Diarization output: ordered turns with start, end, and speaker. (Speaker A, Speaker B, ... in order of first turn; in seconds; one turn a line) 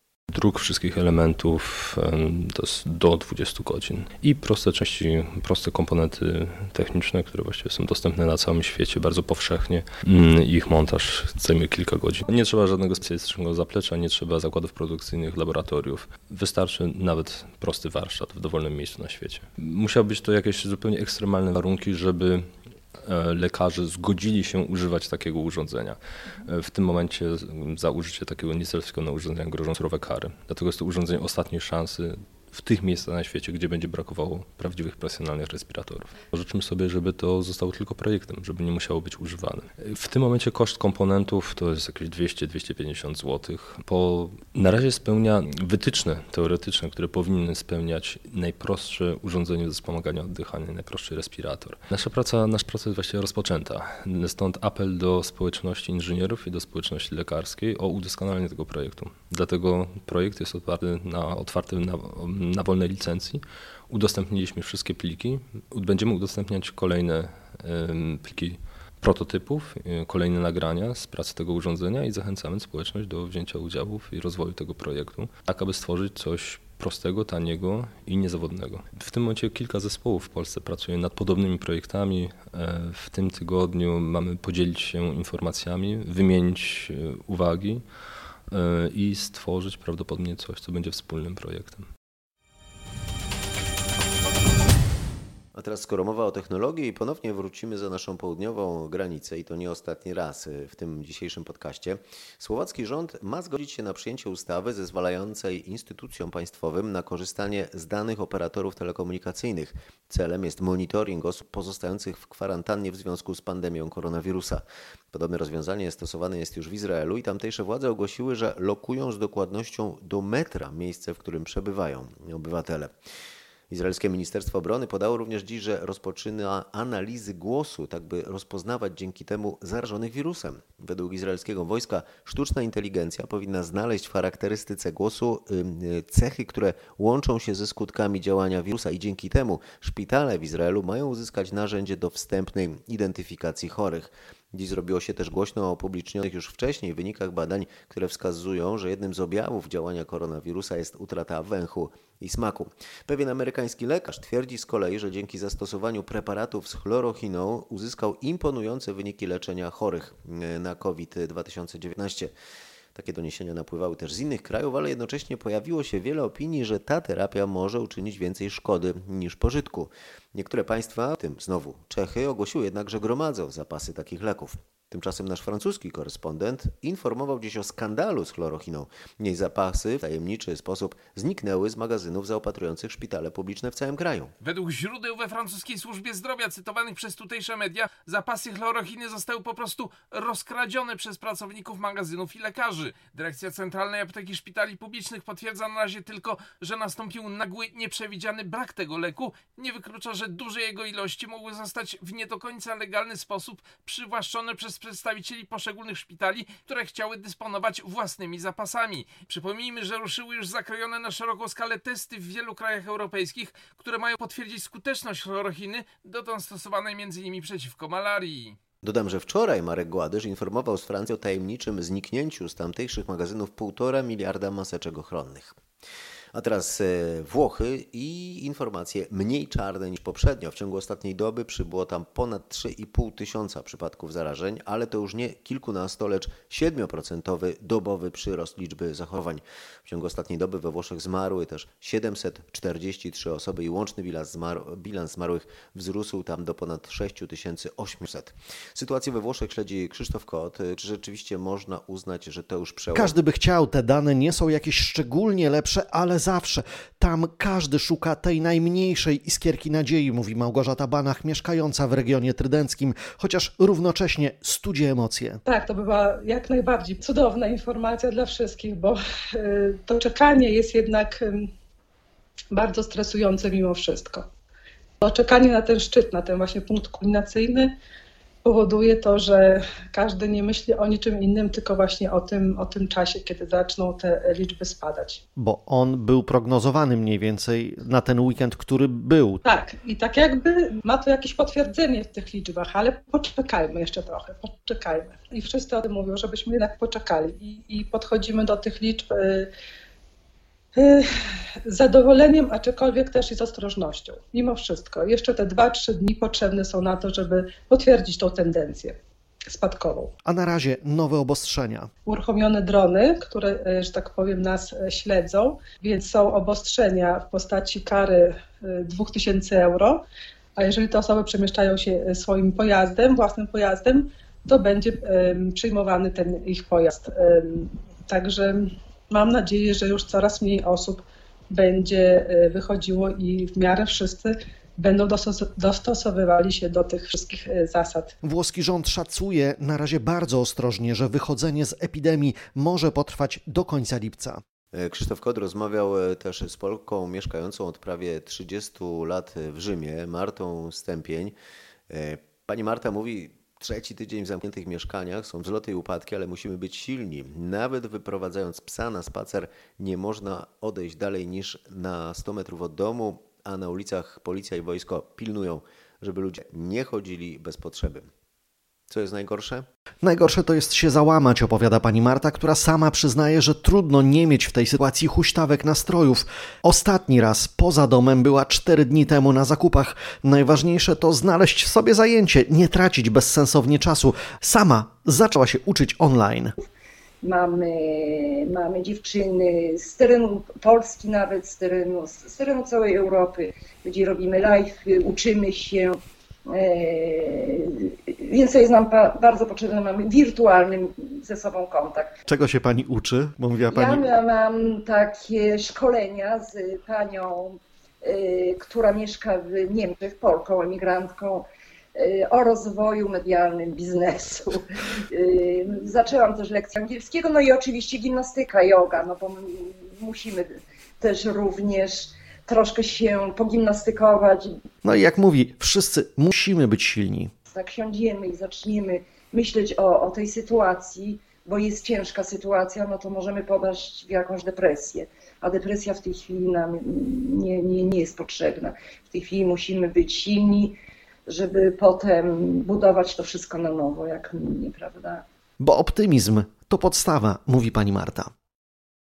Speaker A: 0.3-87.8
Speaker A: 88.5-91.9
Speaker B: 95.5-122.9
Speaker B: 123.7-162.3
Speaker B: 162.9-184.3
Speaker C: 184.4-218.6
Speaker B: 218.8-225.6
Speaker B: 226.3-253.1
Speaker D: 252.9-265.4
Speaker E: 265.4-271.5
Speaker E: 272.5-274.2
Speaker E: 275.0-277.7
Speaker E: 278.4-285.2
Speaker D: 285.4-289.4
Speaker E: 289.4-299.5
Speaker E: 300.8-301.1
Speaker E: 301.6-308.9
Speaker E: 309.5-310.1
Speaker D: 310.2-311.9
Speaker E: 312.1-320.0
Speaker E: 320.6-338.1
Speaker D: 338.2-344.4
Speaker B: 344.7-351.3
Speaker B: 351.9-368.1
Speaker B: 368.9-369.6
Speaker D: 370.0-386.5
Speaker F: 387.2-402.1
Speaker D: 402.2-404.0
Speaker F: 403.7-424.6
Speaker D: 424.8-427.3
Speaker F: 427.4-440.8
Speaker F: 441.3-445.2
Speaker D: 445.6-448.3